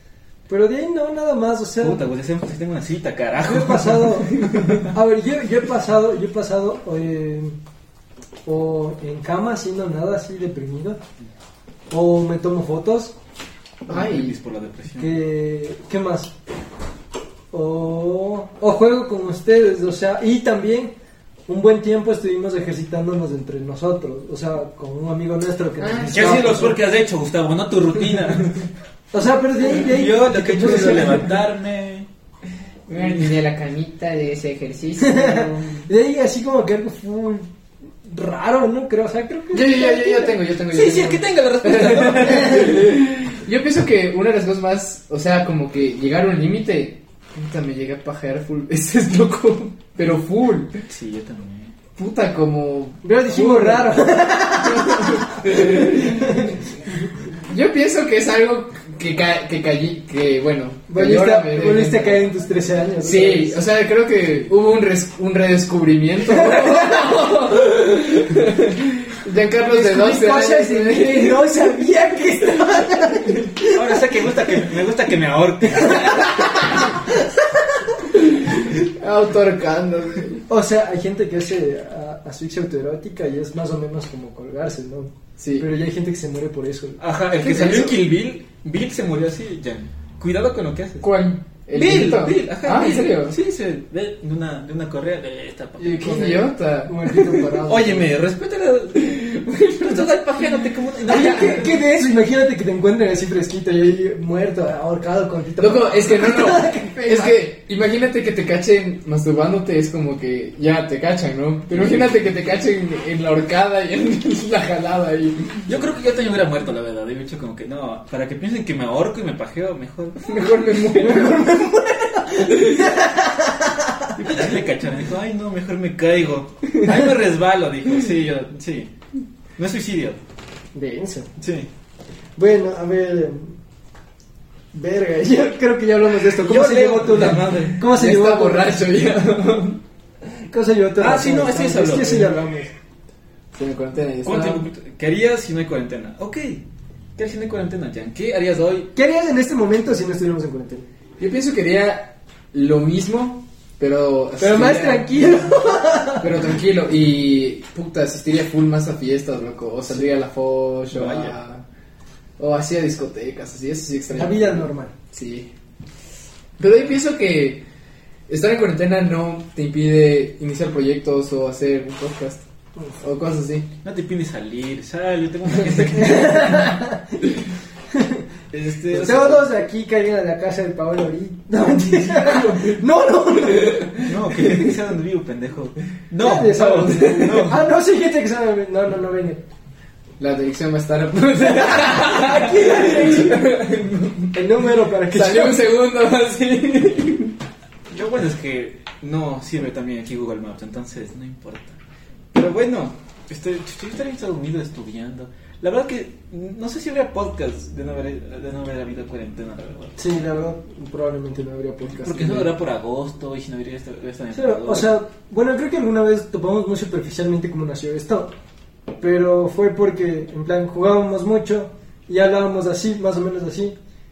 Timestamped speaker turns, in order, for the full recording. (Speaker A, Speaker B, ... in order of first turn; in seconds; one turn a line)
Speaker A: 0.5-2.0
Speaker B: 1.8-4.8
Speaker A: 3.4-7.6
Speaker A: 8.5-11.0
Speaker A: 11.9-13.2
Speaker B: 13.9-15.2
Speaker C: 13.9-14.3
Speaker A: 15.0-16.3
Speaker A: 17.5-20.9
Speaker A: 21.5-26.8
Speaker C: 25.8-26.7
Speaker B: 26.1-28.6
Speaker A: 29.1-31.3
Speaker B: 29.6-32.1
Speaker C: 32.9-35.8
Speaker B: 32.9-33.2
Speaker A: 35.0-37.5
Speaker A: 38.0-40.4
Speaker C: 39.5-50.7
Speaker B: 40.7-42.8
Speaker B: 50.9-51.8
Speaker C: 52.0-56.6
Speaker A: 53.0-56.6
Speaker C: 57.3-62.3
Speaker A: 60.9-63.6
Speaker C: 63.0-71.7
Speaker A: 66.3-67.2
Speaker A: 69.6-73.8
Speaker B: 73.7-76.5
Speaker A: 75.9-76.3
Speaker C: 78.2-80.5
Speaker A: 80.5-87.0
Speaker C: 85.4-85.7
Speaker B: 87.0-91.2
Speaker C: 87.4-88.0
Speaker C: 91.0-93.4
Speaker B: 91.7-96.4
Speaker C: 95.8-97.7
Speaker A: 96.0-98.1
Speaker B: 97.7-101.7
Speaker C: 99.0-100.6
Speaker A: 101.1-107.5
Speaker C: 105.6-115.7
Speaker B: 115.7-120.2
Speaker C: 120.2-121.3
Speaker A: 121.0-124.1
Speaker C: 122.4-123.0
Speaker B: 124.2-128.9
Speaker B: 129.6-130.2
Speaker A: 130.8-131.3
Speaker B: 131.4-131.7
Speaker A: 132.4-133.6
Speaker A: 134.7-138.8
Speaker B: 136.3-137.8
Speaker C: 137.2-139.8
Speaker A: 140.5-142.7
Speaker B: 141.0-142.3
Speaker C: 143.5-144.7
Speaker B: 144.2-146.6
Speaker B: 147.2-148.9
Speaker A: 148.9-150.9
Speaker C: 151.2-155.3
Speaker A: 154.4-156.3
Speaker C: 156.2-161.6
Speaker B: 160.9-161.4
Speaker C: 162.4-165.5
Speaker A: 164.1-164.9
Speaker C: 166.6-167.7
Speaker C: 168.3-172.5
Speaker C: 173.0-173.7
Speaker B: 173.8-176.7
Speaker A: 176.0-177.2
Speaker A: 177.9-178.2
Speaker B: 178.5-179.7
Speaker A: 178.9-184.6
Speaker C: 181.9-182.8
Speaker B: 184.0-187.7
Speaker A: 186.2-189.4
Speaker C: 186.9-187.3
Speaker C: 190.2-194.3
Speaker A: 191.4-193.6
Speaker A: 194.3-195.7
Speaker C: 195.1-197.4
Speaker B: 197.9-201.8
Speaker B: 202.3-210.0
Speaker A: 210.0-212.5
Speaker B: 211.9-214.9
Speaker A: 214.3-218.3
Speaker A: 219.0-223.8